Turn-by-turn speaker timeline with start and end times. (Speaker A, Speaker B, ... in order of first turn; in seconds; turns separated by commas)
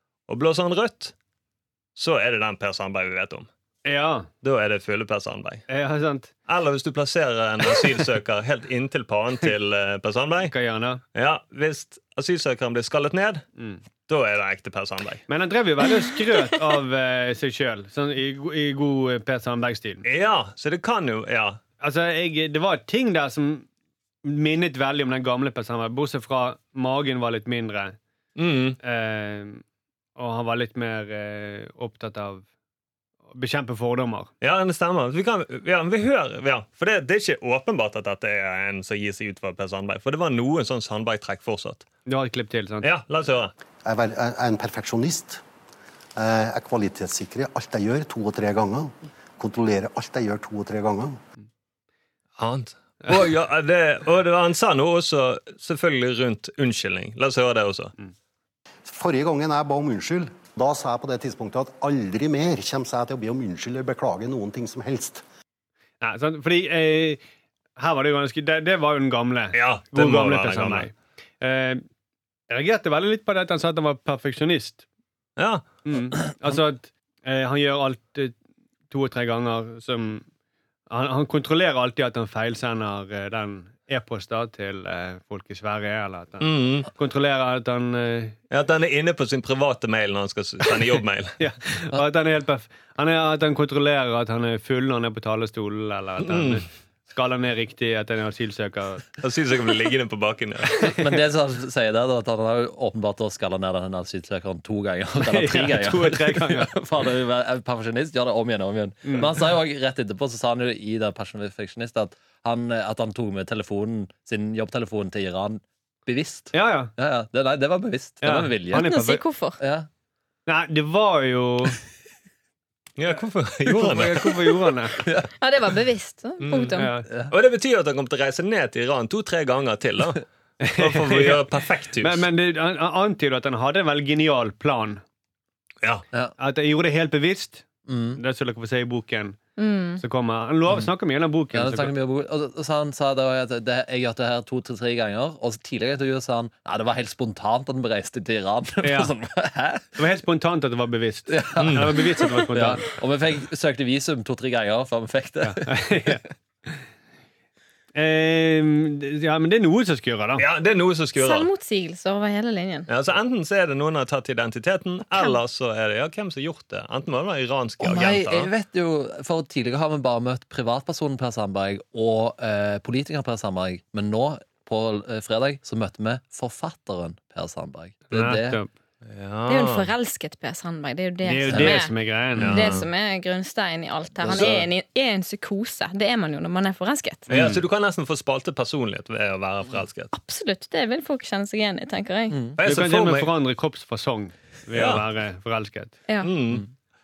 Speaker A: 0.3-1.1, Speaker A: 1.9-3.5, Speaker B: 3.8-4.3, Speaker A: 4.4-5.7, Speaker B: 5.7-6.3, Speaker A: 6.5-10.5, Speaker B: 10.4-11.0, Speaker A: 11.1-13.4, Speaker A: 14.1-15.2, Speaker B: 15.3-20.0, Speaker A: 20.0-21.6, Speaker B: 21.8-23.7, Speaker B: 24.2-28.0, Speaker A: 28.4-28.8, Speaker B: 28.8-29.6, Speaker B: 30.1-32.4, Speaker B: 33.3-34.3, Speaker A: 34.4-41.9, Speaker B: 42.0-42.9, Speaker A: 42.8-43.5, Speaker C: 43.8-45.4, Speaker C: 46.1-51.2, Speaker A: 52.4-57.9, Speaker C: 58.9-65.2, Speaker B: 66.0-67.2, Speaker B: 67.8-71.8, Speaker A: 69.5-70.9, Speaker B: 72.5-74.8, Speaker A: 75.4-75.7, Speaker B: 75.8-78.3, Speaker B: 78.9-80.2, Speaker B: 80.9-88.3, Speaker A: 86.4-86.9, Speaker A: 88.5-91.4, Speaker B: 91.4-99.1, Speaker A: 96.2-96.6, Speaker A: 99.2-100.9, Speaker D: 100.8-118.9, Speaker B: 105.2-106.7, Speaker B: 109.0-109.3, Speaker B: 116.5-116.9, Speaker B: 118.2-119.2, Speaker E: 118.7-119.6, Speaker D: 119.6-119.9, Speaker B: 120.5-121.8, Speaker A: 123.0-124.3, Speaker B: 123.7-125.0, Speaker D: 125.0-125.3, Speaker E: 125.4-126.9, Speaker A: 126.4-126.8, Speaker B: 126.8-127.1, Speaker A: 127.3-130.2, Speaker B: 130.6-131.4, Speaker A: 130.8-132.2, Speaker B: 132.0-135.0, Speaker B: 136.4-137.6, Speaker D: 137.8-138.2, Speaker B: 138.2-139.4, Speaker E: 139.6-140.0, Speaker B: 140.0-141.9, Speaker D: 141.5-150.0, Speaker B: 148.8-149.1, Speaker B: 149.9-152.8, Speaker D: 151.3-156.1, Speaker A: 151.6-151.9, Speaker B: 155.4-156.8, Speaker B: 157.9-160.4, Speaker A: 160.4-161.5, Speaker E: 161.2-162.9, Speaker A: 162.9-168.5, Speaker D: 167.8-178.6, Speaker B: 178.1-178.7, Speaker A: 179.0-179.9, Speaker E: 179.5-187.3, Speaker B: 181.2-182.6, Speaker A: 182.4-182.8, Speaker D: 184.2-184.5, Speaker A: 184.3-184.6, Speaker A: 187.3-190.1, Speaker B: 187.3-187.6, Speaker E: 190.1-192.4, Speaker D: 192.3-192.6, Speaker A: 192.6-193.3, Speaker B: 192.6-195.9, Speaker A: 194.7-195.0, Speaker A: 196.2-196.7